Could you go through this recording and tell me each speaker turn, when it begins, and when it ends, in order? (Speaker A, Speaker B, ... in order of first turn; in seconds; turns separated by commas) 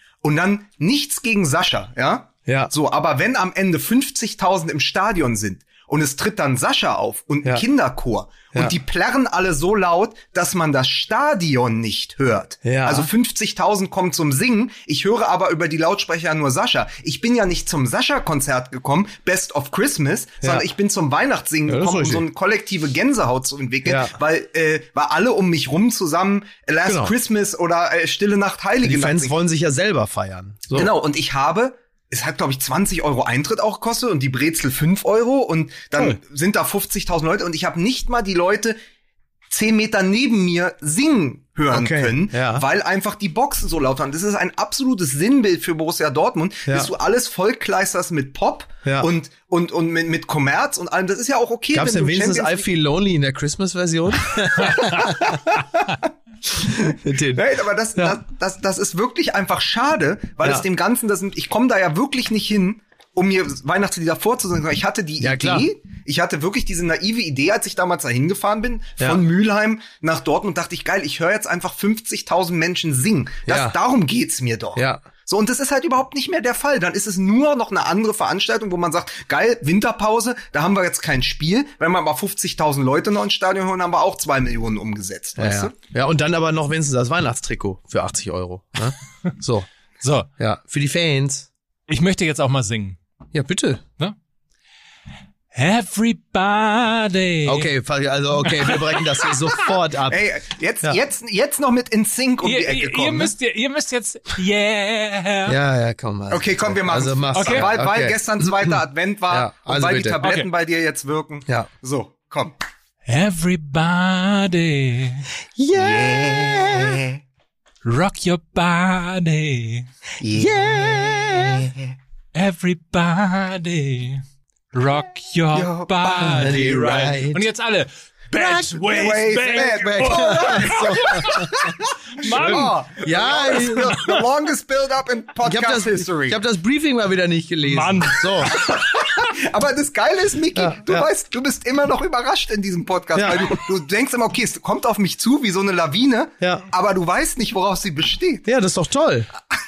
Speaker A: 0.2-29.4, Speaker B: 2.5-2.7, Speaker B: 12.6-13.1, Speaker B: 21.7-22.2, Speaker B: 23.9-24.2, Speaker B: 26.9-27.1, Speaker B: 28.8-30.9, Speaker A: 30.7-38.8, Speaker A: 39.5-52.6, Speaker B: 41.7-42.6, Speaker B: 51.7-55.4, Speaker C: 54.7-55.0, Speaker A: 55.1-55.4, Speaker B: 56.6-57.4, Speaker A: 57.3-85.8, Speaker B: 65.2-65.7, Speaker B: 73.5-73.8, Speaker B: 74.8-75.0, Speaker B: 85.4-89.7, Speaker C: 90.0-90.3, Speaker B: 90.4-91.5, Speaker C: 91.9-93.0, Speaker B: 93.3-93.8, Speaker C: 95.5-97.7, Speaker B: 97.5-100.2, Speaker C: 98.5-99.4, Speaker A: 100.1-103.3, Speaker C: 102.4-105.6, Speaker B: 105.5-108.8, Speaker A: 106.3-112.6, Speaker C: 107.3-107.7, Speaker B: 109.3-110.2, Speaker C: 113.1-115.3, Speaker B: 115.6-117.0, Speaker A: 115.7-117.2, Speaker C: 117.8-119.9, Speaker A: 120.2-121.9, Speaker B: 120.3-121.7, Speaker C: 122.3-131.6, Speaker A: 125.5-127.1, Speaker B: 126.2-127.5, Speaker A: 128.4-136.4, Speaker B: 129.6-131.5, Speaker C: 132.2-134.2, Speaker B: 132.3-134.0, Speaker B: 135.4-138.6, Speaker C: 137.7-138.7, Speaker A: 138.4-148.5, Speaker B: 140.6-141.1, Speaker B: 143.2-143.6, Speaker B: 146.4-146.7, Speaker B: 148.5-149.3